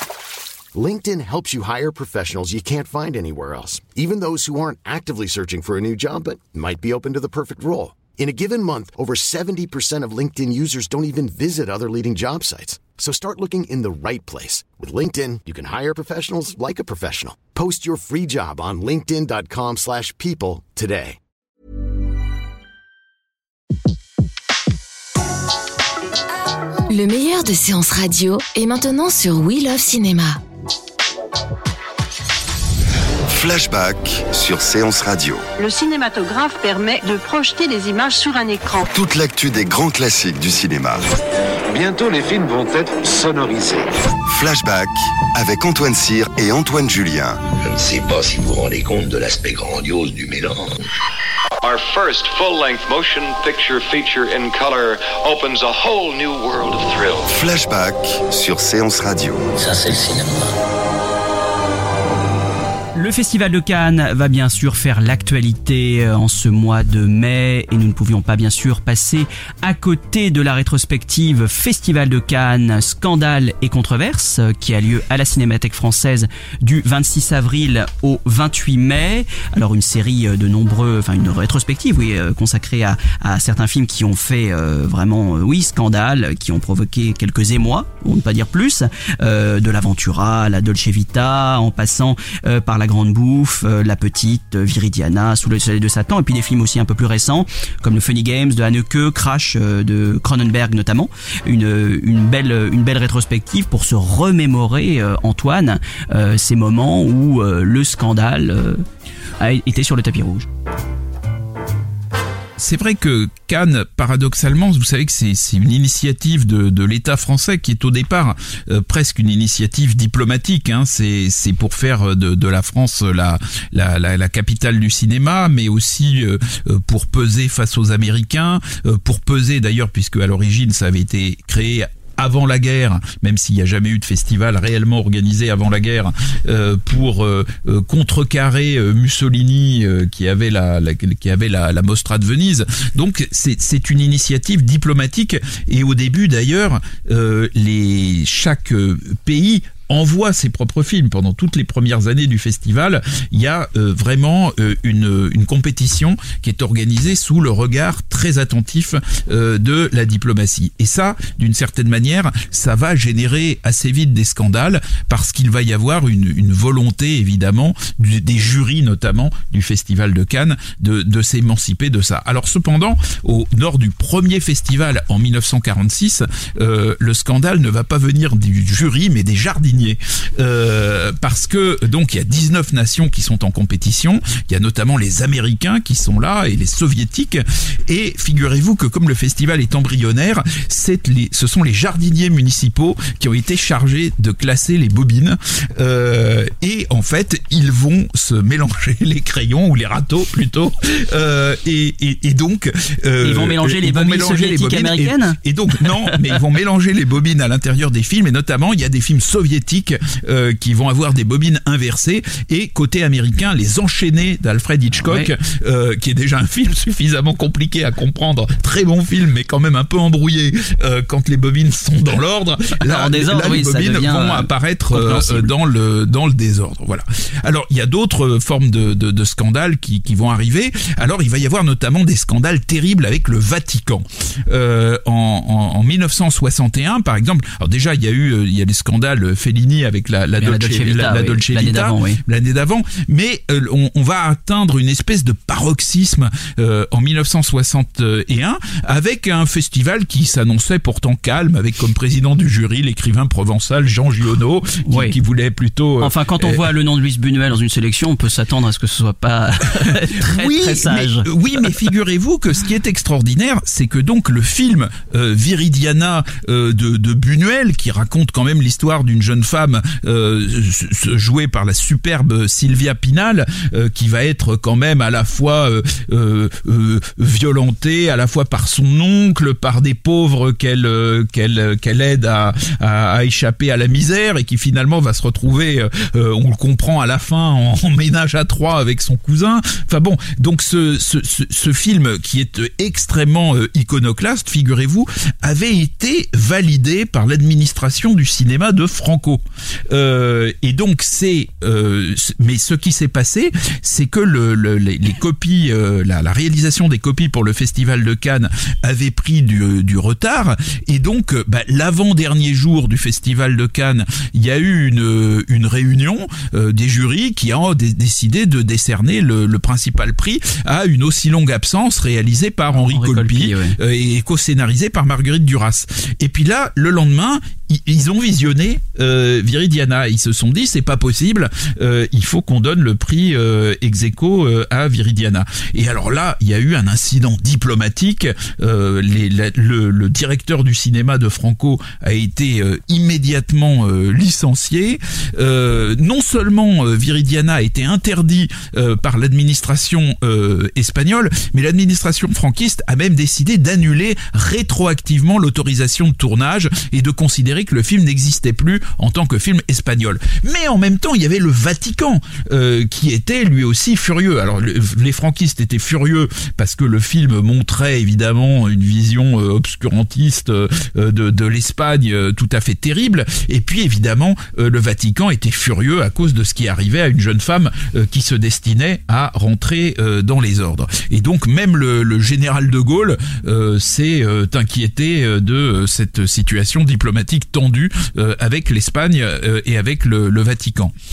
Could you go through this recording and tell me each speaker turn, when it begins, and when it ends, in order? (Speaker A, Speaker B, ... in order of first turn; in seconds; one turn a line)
Speaker A: 0.7-21.2
Speaker B: 26.9-30.4
Speaker C: 33.3-35.5
Speaker D: 35.6-38.9
Speaker C: 38.9-41.1
Speaker E: 41.7-43.9
Speaker C: 44.3-47.4
Speaker F: 47.5-50.9
Speaker G: 51.6-57.3
Speaker C: 57.3-59.5
Speaker F: 59.6-60.2
Speaker H: 63.0-108.8
Speaker H: 109.4-110.5
Speaker I: 112.6-256.7
Speaker H: 203.2-206.4
Speaker H: 215.0-215.3
Speaker H: 222.8-225.5
Speaker H: 240.4-242.2
Speaker H: 254.8-255.2
Speaker H: 256.0-261.9
Speaker I: 260.3-390.9
Speaker H: 322.7-323.8